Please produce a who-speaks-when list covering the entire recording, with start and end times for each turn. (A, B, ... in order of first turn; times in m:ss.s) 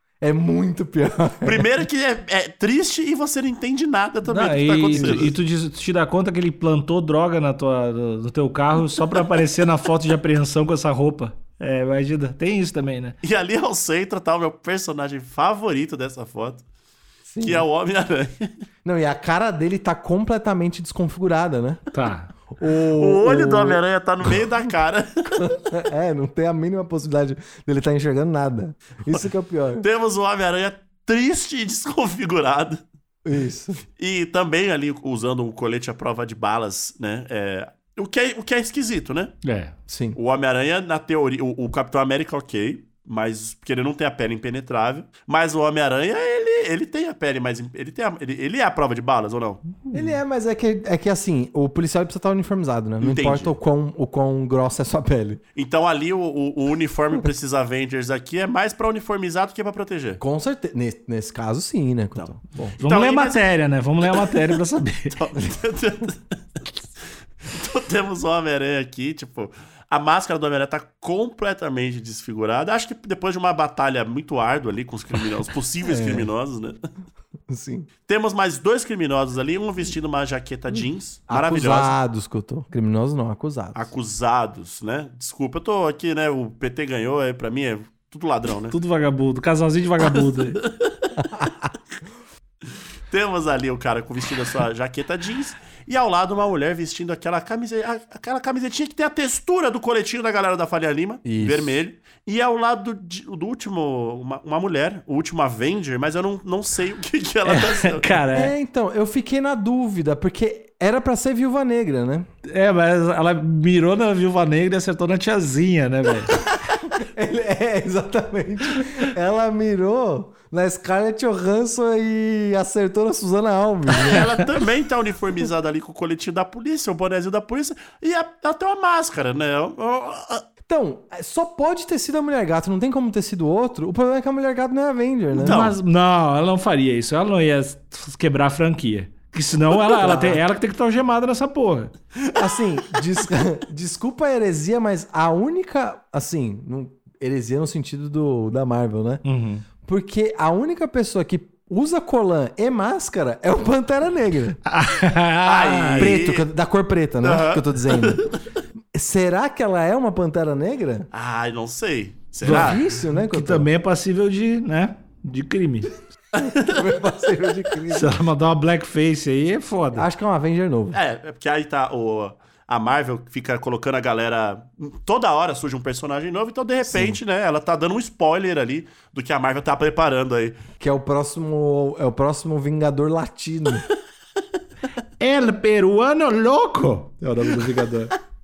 0:00.2-0:01.7 A
0:01.4-0:05.4 B
0:04.2-0:13.2 C
0:04.9-0:05.3 A
0:13.2-0:16.6 B
0:17.3-0:17.7 A
0:17.4-0:18.5 B
0:18.8-0:21.8 A
0:21.9-0:22.3 C
0:22.5-0:24.4 A
0:23.0-0:25.5 B
0:25.3-0:29.9 A
0:29.8-0:32.8 B
0:33.2-0:33.8 A
0:34.0-0:39.3 B
0:39.4-0:39.8 C
0:39.9-0:40.2 A
0:40.2-0:49.6 B
0:49.9-0:55.4 A
0:53.0-0:53.5 B
0:55.6-1:00.2 B
1:00.2-1:02.8 A
1:02.2-1:03.4 B
1:02.8-1:05.2 C
1:04.0-1:04.6 B
1:05.1-1:06.2 B
1:07.5-1:16.8 B
1:15.8-1:16.3 A
1:17.5-1:17.9 A
1:18.1-1:22.0 B
1:21.3-1:23.9 A
1:23.7-1:28.8 B
1:28.7-1:30.6 C
1:30.0-1:31.3 B
1:31.2-1:31.7 A
1:33.1-1:48.1 B
1:41.2-1:41.8 A
1:47.4-1:48.5 C
1:48.3-1:52.3 A
1:52.5-1:56.3 C
1:56.9-2:04.3 A
2:04.0-2:10.4 B
2:10.7-2:15.6 A
2:15.4-2:15.8 B
2:15.4-2:21.9 C
2:19.9-2:20.4 A
2:22.2-2:23.0 B
2:22.4-2:29.2 A
2:29.2-2:29.6 C
2:29.8-2:34.6 A
2:34.7-2:36.2 C
2:35.4-2:36.5 B
2:36.0-2:38.3 A
2:37.2-2:38.4 B
2:38.9-2:41.1 A
2:41.1-2:42.8 B
2:42.4-2:43.7 A
2:42.4-2:46.0 C
2:46.4-2:48.2 A
2:46.5-2:46.8 B
2:47.9-2:50.1 C
2:50.0-2:51.0 A
2:50.9-3:00.6 B
2:56.9-2:57.2 A
3:00.8-3:03.9 A
3:05.2-3:08.1 C